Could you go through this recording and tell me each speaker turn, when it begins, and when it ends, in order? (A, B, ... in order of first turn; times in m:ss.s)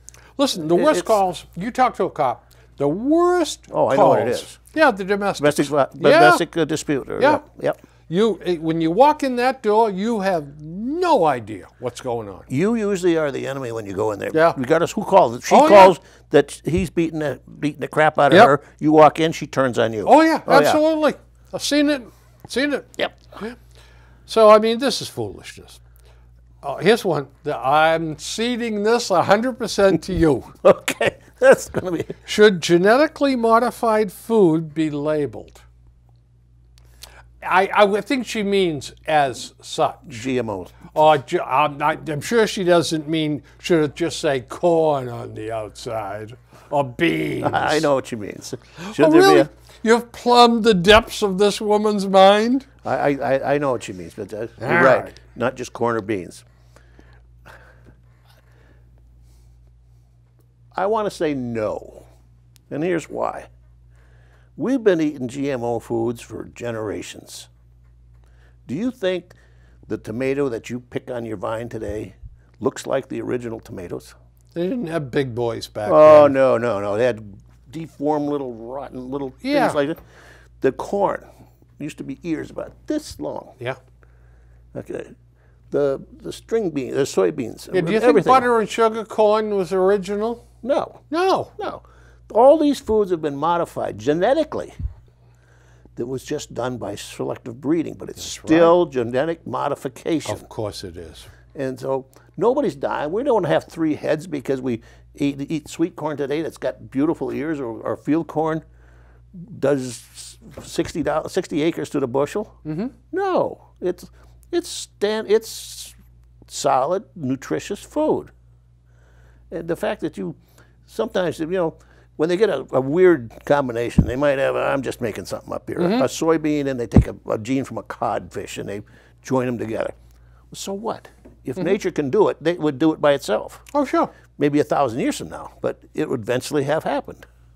0:00.4-0:06.4 A
0:00.7-0:01.2 B
0:03.7-0:04.6 B
0:05.4-0:07.8 B
0:08.1-0:12.5 A
0:12.5-0:20.8 B
0:14.3-0:14.6 A
0:15.5-0:16.0 A
0:20.0-0:23.6 A
0:24.3-0:25.8 A
0:26.6-0:30.5 A
0:30.6-0:32.2 B
0:32.2-0:35.6 A
0:37.4-0:40.2 A
0:40.1-0:40.8 B
0:40.9-0:47.9 A
0:47.4-0:49.5 B
0:48.8-0:52.7 A
0:52.8-0:56.4 B
0:54.6-0:55.1 A
1:00.7-1:02.1 B
1:02.7-1:03.5 B
1:04.6-1:07.5 B
1:08.6-1:09.3 B
1:09.9-1:14.1 B
1:14.5-1:16.4 A
1:15.8-1:20.0 B
1:19.4-1:19.8 A
1:20.6-1:21.3 B
1:21.8-1:23.5 B
1:24.7-1:25.1 B
1:25.7-1:28.5 B
1:27.7-1:30.4 A
1:30.6-1:31.0 B
1:31.1-1:31.5 A
1:31.6-1:34.7 B
1:36.0-1:40.4 B
1:38.2-1:38.7 A
1:40.2-1:41.3 A
1:41.5-1:48.6 B
1:49.3-1:52.6 B
1:52.6-1:52.9 A
1:53.1-1:55.9 B
1:56.5-1:58.3 B
1:59.5-2:09.9 B
2:05.8-2:06.1 A
2:10.5-2:13.7 B
2:13.7-2:14.1 A
2:14.4-2:17.2 B